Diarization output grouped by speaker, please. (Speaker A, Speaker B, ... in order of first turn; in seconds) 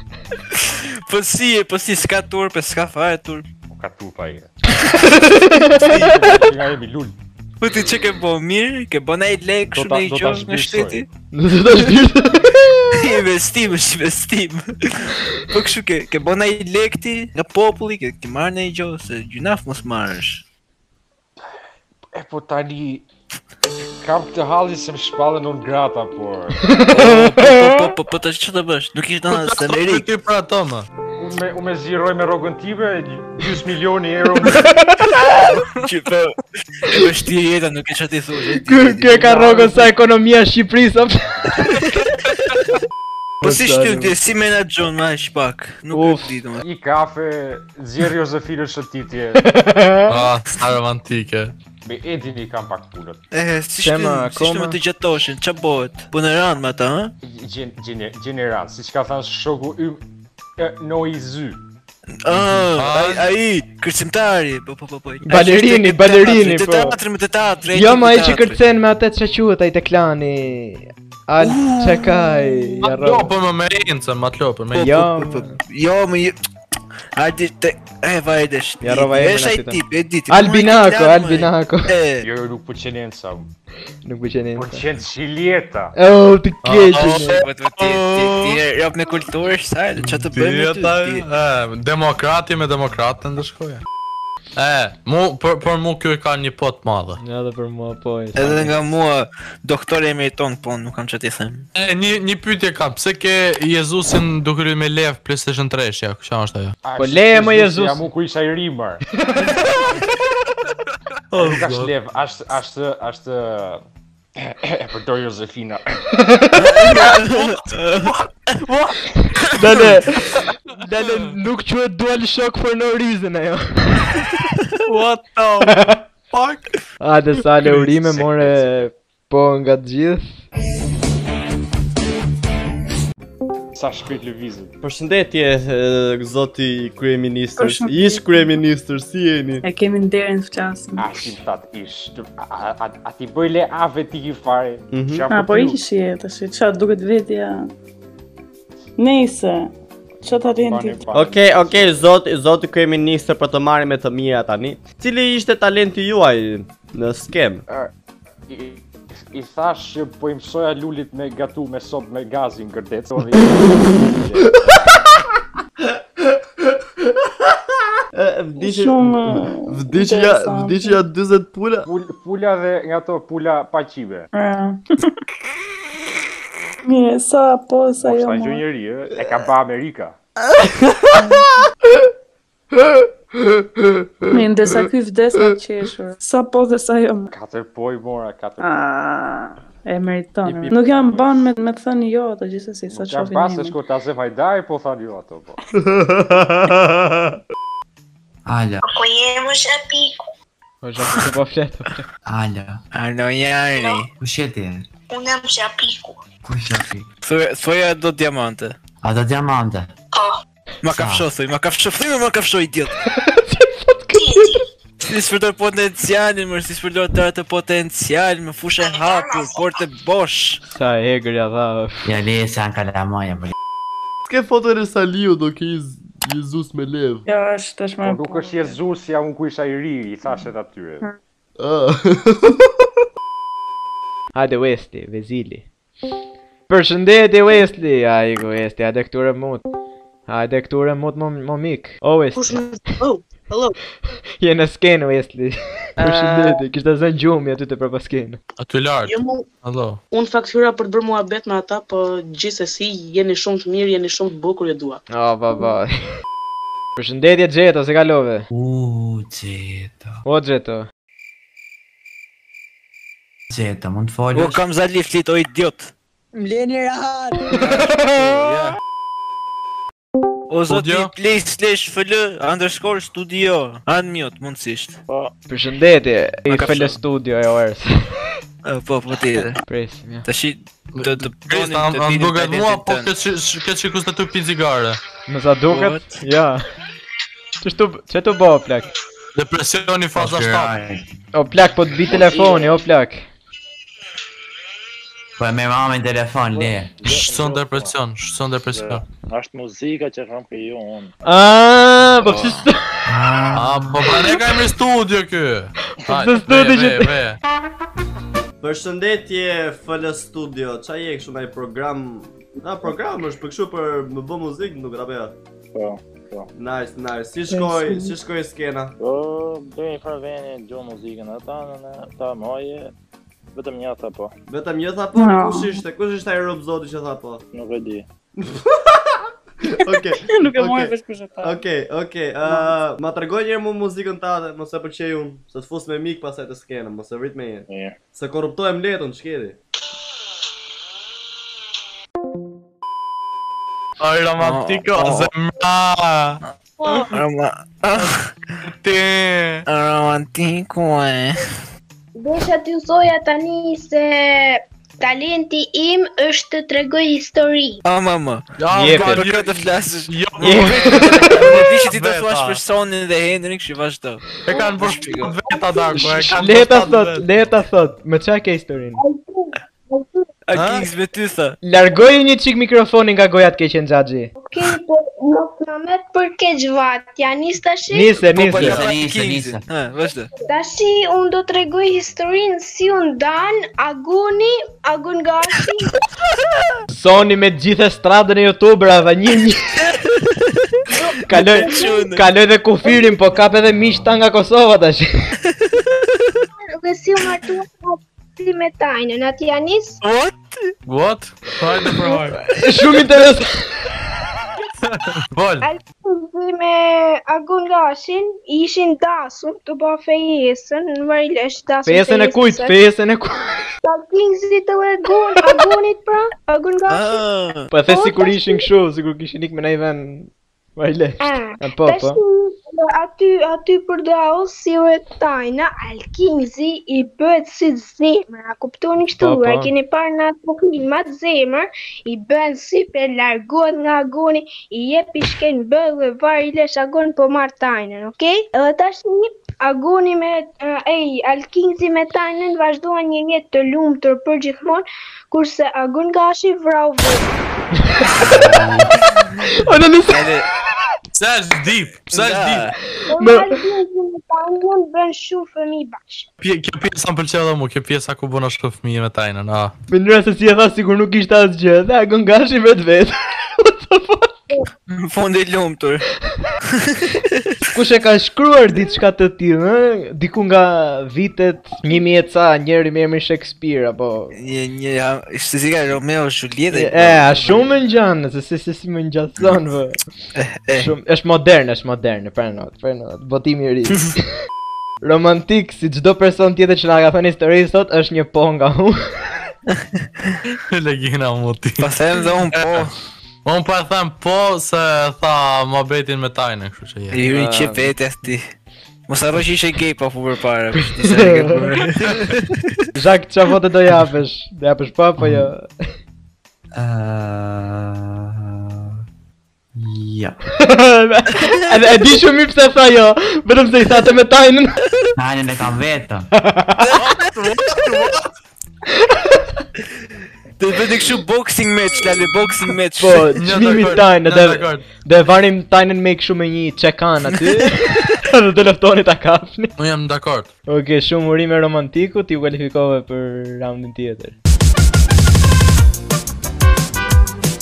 Speaker A: 0.5-3.5, 4.8-6.3, 7.6-11.1, 12.9-20.4, 26.9-30.1, 35.8-39.9, 41.6-42.0, 43.4-46.6, 53.3-57.1, 62.1-68.6, 71.4-72.8, 75.3-76.4, 77.2-82.3, 87.2-91.3, 98.4-101.7, 116.6-118.2, 202.9-204.1, 207.2-208.8, 210.8-212.9, 215.0-220.6, 264.3-265.9, 268.1-268.7, 270.5-275.0, 276.5-277.0, 278.6-279.6, 280.2-283.1, 285.7-286.2, 344.4-345.3, 346.4-348.3, 349.7-351.4, 357.8-365.4, 370.5-371.6, 378.3-380.3, 389.8-390.6, 391.3-392.2, 395.4-396.1, 400.0-400.7, 416.9-417.7, 450.1-450.5, 452.1-452.8, 464.9-466.0, 466.6-467.6, 474.3-477.7, 480.4-480.9, 489.7-490.4, 491.8-492.9, 497.1-498.5, 499.1-502.8, 516.8-517.4, 520.6-523.4, 527.3-527.6
Speaker B: 3.7-4.5, 5.8-7.2, 9.7-11.0, 22.1-23.1, 24.0-26.6, 31.2-34.8, 46.6-49.4, 51.9-53.2, 57.2-60.0, 60.6-61.6, 82.2-83.5, 84.5-86.0, 106.8-109.0, 111.3-113.8, 114.4-116.0, 133.7-134.7, 141.0-145.8, 150.2-152.0, 158.5-164.8, 171.9-174.3, 178.0-180.2, 187.3-188.8, 190.7-191.4, 192.9-195.6, 228.0-231.1, 292.2-292.6
Speaker C: 5.0-6.1, 11.3-13.1, 26.6-27.9, 38.6-41.7, 43.4-44.2, 45.9-46.4, 49.4-50.2, 53.8-54.8, 65.3-67.0, 67.7-73.3, 74.8-75.6, 78.8-81.9, 84.0-84.9, 86.0-87.4, 97.2-98.7, 107.0-108.1, 109.2-109.5, 116.1-117.0, 119.2-124.2, 125.7-126.0, 127.0-130.4, 200.8-202.1, 213.1-214.6, 220.7-222.0, 234.3-235.7, 236.7-239.6, 240.3-242.7, 244.4-248.4, 255.1-255.9, 257.0-258.5, 260.3-260.9, 267.6-268.0, 275.5-278.1, 279.7-280.3, 285.3-286.6, 287.6-288.9, 291.3-293.3, 301.2-302.8, 306.1-307.1, 358.7-359.3, 360.4-361.4, 365.9-369.0, 371.6-374.3, 377.9-378.8, 386.9-389.7, 391.3-395.1, 402.5-403.5, 411.9-413.3, 417.7-422.2, 429.2-429.7, 447.8-448.1, 449.5-450.3, 453.0-453.5, 459.9-464.6, 467.7-474.3, 476.7-480.0, 480.7-484.2, 485.0-489.0, 497.3-497.9, 500.9-501.7, 502.9-505.7, 510.6-514.8, 516.4-516.9, 519.1-519.5, 523.0-529.7, 530.7-534.3
Speaker D: 29.3-30.9, 50.1-51.5, 62.7-63.3, 72.8-75.1, 86.7-88.6, 90.0-93.8, 94.6-97.2, 101.8-106.8, 111.3-111.9, 117.2-119.0, 124.9-125.8, 126.3-126.6, 127.6-128.1, 248.6-250.0, 270.7-271.1, 280.9-285.0, 289.4-290.8, 297.1-299.0, 303.5-307.4, 344.0-347.1, 348.7-349.6, 358.6-362.6, 364.4-367.3, 370.5-370.9, 400.9-402.4, 404.8-405.6, 451.1-452.7, 456.4-459.7, 490.7-491.9, 492.5-492.9, 493.4-497.2, 517.0-518.3, 523.4-524.9, 529.8-530.5
Speaker E: 134.8-139.6, 144.9-145.3, 151.1-157.6, 166.2-166.8, 168.1-171.9, 195.8-197.3, 224.2-227.2, 231.6-232.7, 308.6-315.4, 316.6-318.9, 324.5-327.4, 328.4-339.6
Speaker F: 137.6-138.5, 139.6-141.3, 145.3-147.7, 149.0-151.1, 168.6-171.0, 174.3-174.8, 176.9-178.6, 181.2-181.4, 184.3-187.3, 188.6-193.8, 227.3-228.8, 317.5-318.1, 325.1-325.8, 329.9-331.6
Speaker G: 198.5-198.8, 202.3-202.8, 204.2-204.9, 206.4-207.1, 209.0-209.9, 210.9-211.3, 222.1-223.6, 258.5-260.2, 263.5-264.6, 290.1-291.1, 295.4-297.0, 303.1-304.2, 378.4-379.6, 505.2-505.5, 506.8-508.9, 509.8-510.4, 515.2-516.3
Speaker H: 198.8-200.2, 205.1-206.2, 214.1-214.6, 218.8-219.8
Speaker I: 242.4-243.8, 246.0-246.6, 249.1-249.5, 250.1-255.0, 266.4-267.3
Speaker J: 275.1-275.3, 296.6-297.9, 298.7-301.1, 315.7-316.5, 319.0-322.9, 323.6-324.3, 327.5-328.1, 337.7-337.9
Speaker K: 352.2-357.8, 369.0-370.3, 374.4-378.2, 380.5-385.9, 396.7-400.0, 405.6-412.8, 413.8-417.2, 417.9-418.6, 421.2-447.3, 453.1-456.3